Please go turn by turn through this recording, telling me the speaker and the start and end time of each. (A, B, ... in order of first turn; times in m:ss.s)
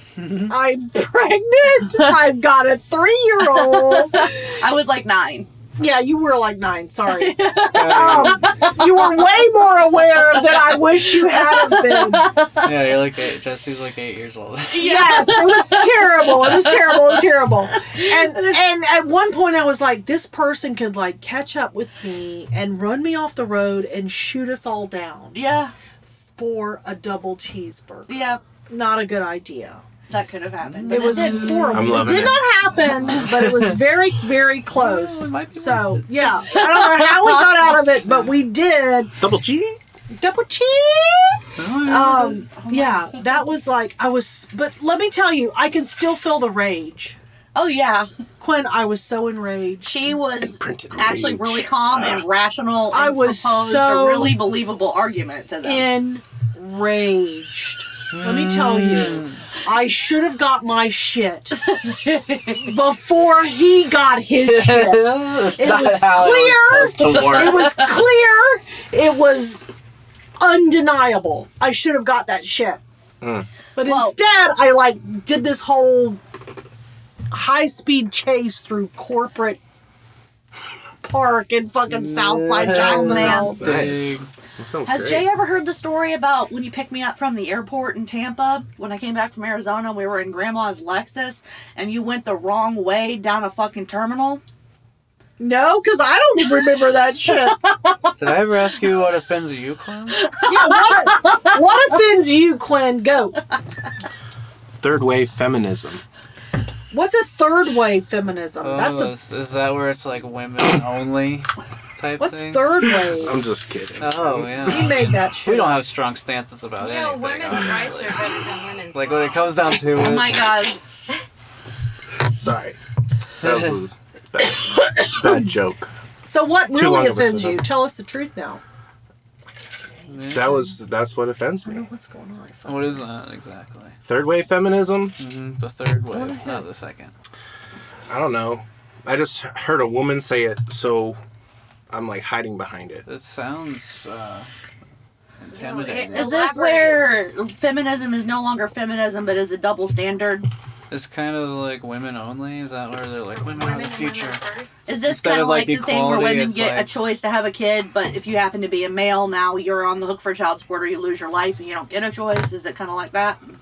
0:00.2-0:00.5 A
0:00.5-0:04.3 B
0:03.4-0:05.5 C
0:05.8-0:12.4 B
0:07.1-0:09.4 C
0:07.7-0:08.5 A
0:10.2-0:12.7 C
0:12.6-0:14.9 A
0:14.7-0:17.2 C
0:14.8-0:25.4 B
0:17.8-0:18.5 C
0:25.3-0:25.7 C
0:26.4-0:29.8 B
0:28.1-0:28.4 C
0:30.1-0:31.8 C
0:30.6-0:32.3 A
0:30.9-0:39.1 B
0:31.7-0:32.5 D
0:33.0-0:33.8 A
0:34.7-0:36.2 A
0:36.6-0:37.9 C
0:39.2-0:39.8 D
0:40.2-0:47.2 B
0:41.6-0:42.5 A
0:42.5-0:43.2 C
0:47.6-0:48.1 C
0:48.4-0:50.0 B
0:49.8-0:55.9 C
0:50.4-0:52.2 D
0:52.9-0:54.4 B
0:55.6-1:01.7 B
0:58.1-0:59.4 A
1:02.5-1:09.7 B
1:04.4-1:07.8 A
1:10.4-1:12.8 B
1:13.2-1:13.5 D
1:13.8-1:16.2 B
1:13.8-1:14.2 C
1:17.3-1:19.6 B
1:21.0-1:23.9 B
1:21.9-1:24.3 A
1:22.7-1:23.6 C
1:23.4-1:25.3 D
1:24.9-1:34.4 C
1:35.4-1:37.6 B
1:37.3-1:38.1 C
1:38.2-1:40.2 A
1:40.2-1:41.5 C
1:40.5-1:43.4 B
1:44.7-1:46.0 D
1:46.9-1:49.1 B
1:48.6-1:52.7 A
1:52.2-1:53.4 B
1:53.0-1:54.9 D
1:54.0-1:58.2 A
1:54.7-1:55.8 B
1:56.8-1:59.6 E
1:58.9-2:00.6 A
1:59.9-2:00.8 C
2:02.4-2:02.8 D
2:03.4-2:05.9 D
2:03.4-2:03.8 A
2:06.3-2:08.6 B
2:06.7-2:07.7 D
2:10.1-2:10.7 A
2:10.3-2:11.9 D
2:11.6-2:13.0 B
2:12.7-2:14.0 A
2:14.0-2:15.2 D
2:15.2-2:17.1 A
2:16.1-2:16.6 B
2:18.1-2:21.2 D
2:21.9-2:23.0 D
2:23.1-2:24.5 A
2:25.4-2:26.4 A
2:25.5-2:27.2 E
2:26.0-2:30.5 C
2:30.9-2:34.4 A
2:33.4-2:34.9 E
2:34.9-2:43.4 C
2:35.0-2:36.9 A